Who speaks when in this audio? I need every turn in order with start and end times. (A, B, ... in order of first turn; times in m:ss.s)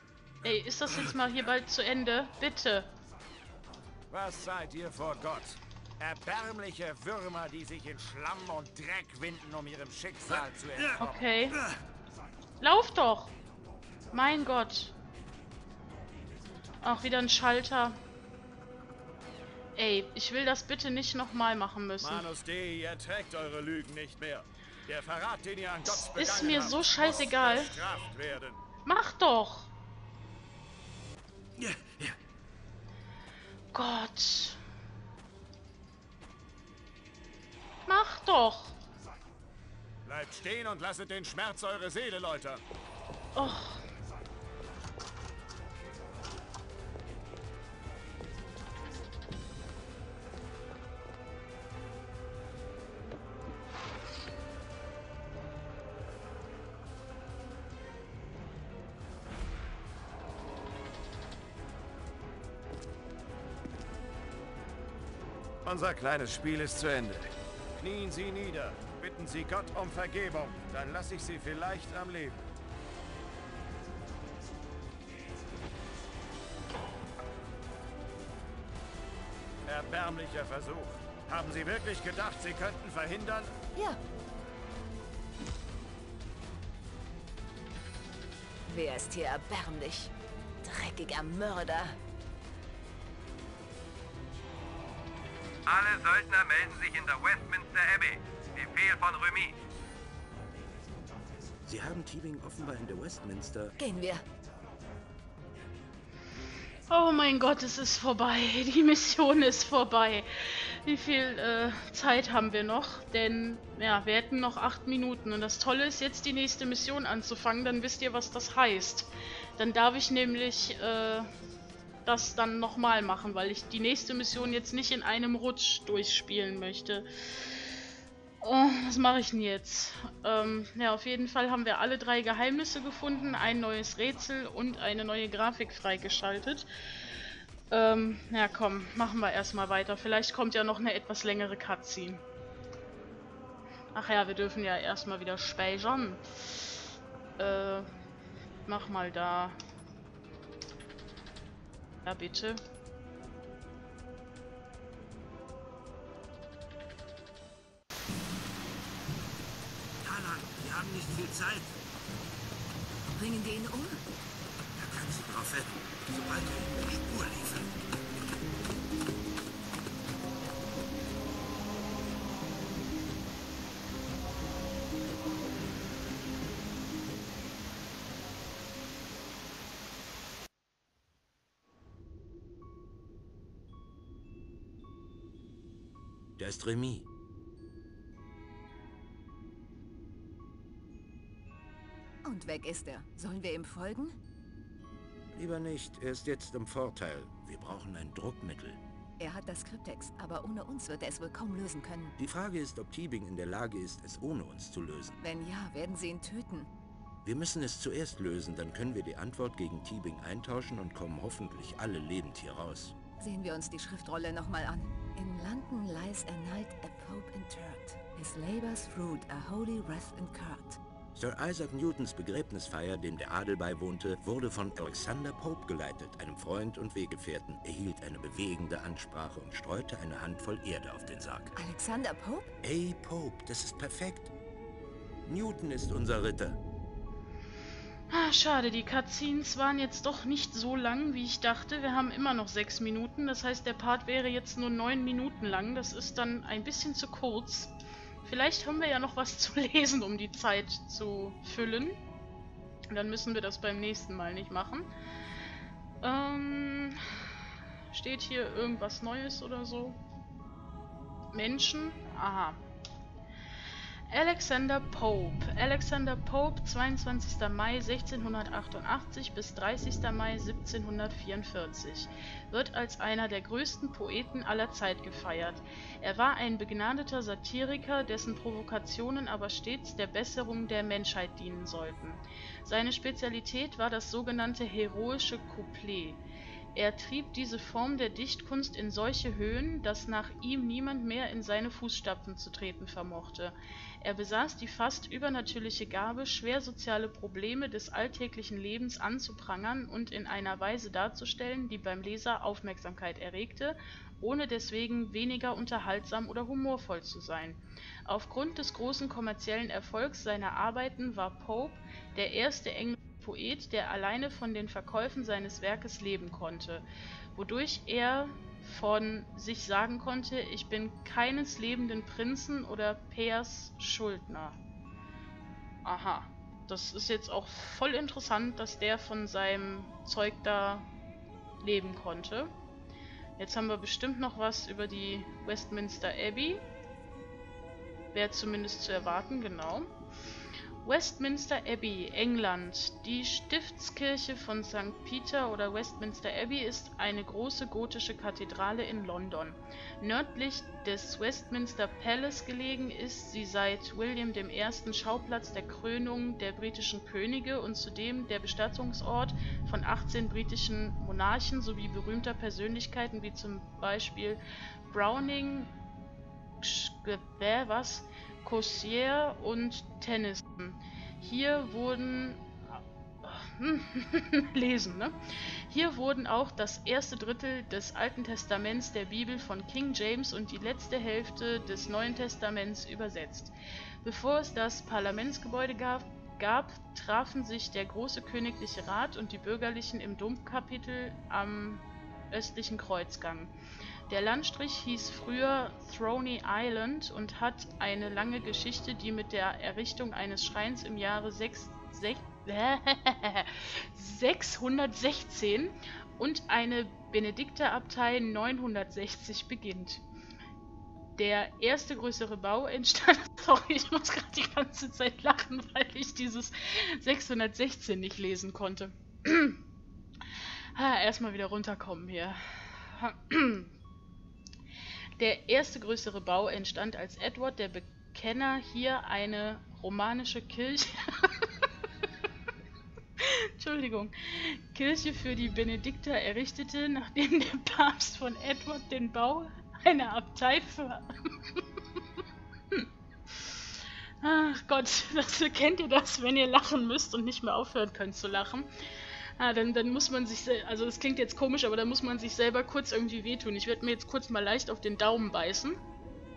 0:00.4-0:02.9 A
0:04.1-0:11.2 B
0:11.0-0:11.6 A
0:12.6-0:13.3 A
0:14.1-0:15.0 A
0:16.8-0:18.0 A
0:19.8-0:22.3 A
0:22.0-0:28.6 B
0:25.8-0:27.8 A
0:28.8-0:29.7 A
0:31.6-0:32.1 B
0:33.7-0:34.6 A
0:37.9-0:38.8 A
0:40.0-0:42.6 B
0:43.4-0:43.8 A
1:05.6-1:12.4 B
1:19.7-1:23.5 B
1:28.7-1:30.1 C
1:30.6-1:32.0 C
1:35.7-1:39.6 D
1:41.6-1:43.8 E
1:43.8-1:44.2 C
1:46.9-2:01.3 A
2:02.0-2:07.7 A
2:08.4-2:16.7 A
2:17.7-2:22.2 A
2:23.9-2:26.8 A
2:27.4-2:27.9 A
2:28.7-2:29.6 A
2:32.0-2:32.6 A
2:40.0-2:41.8 E
2:43.1-2:44.0 C
2:44.8-2:48.0 E
3:06.4-3:07.1 E
3:12.2-3:14.2 C
3:15.3-3:18.8 E
3:19.2-3:22.2 C
3:22.2-3:25.2 E
3:25.2-3:26.7 C
3:27.2-3:33.0 E
3:33.2-3:40.8 C
3:41.2-3:51.6 E
3:51.6-3:52.5 C
3:52.6-3:54.3 E
3:55.3-3:56.6 E
3:58.1-4:12.0 A
4:12.9-4:14.9 A
4:16.0-4:17.0 A
4:17.9-4:20.0 A
4:21.3-4:22.6 A
4:24.1-4:46.2 A
4:46.7-5:24.6 A
5:25.8-5:30.9 A
5:31.6-5:32.5 A
5:33.4-5:36.6 A
5:38.1-5:39.9 A
5:40.8-6:05.7 A
6:06.6-6:12.5 A
6:13.2-6:33.5 A
6:34.1-6:50.0 A
6:51.2-6:59.6 A
7:00.8-7:03.7 A
7:05.2-7:11.5 A
7:13.2-7:21.6 A
7:22.7-7:23.7 A
7:24.2-7:28.7 A
7:29.4-7:35.8 A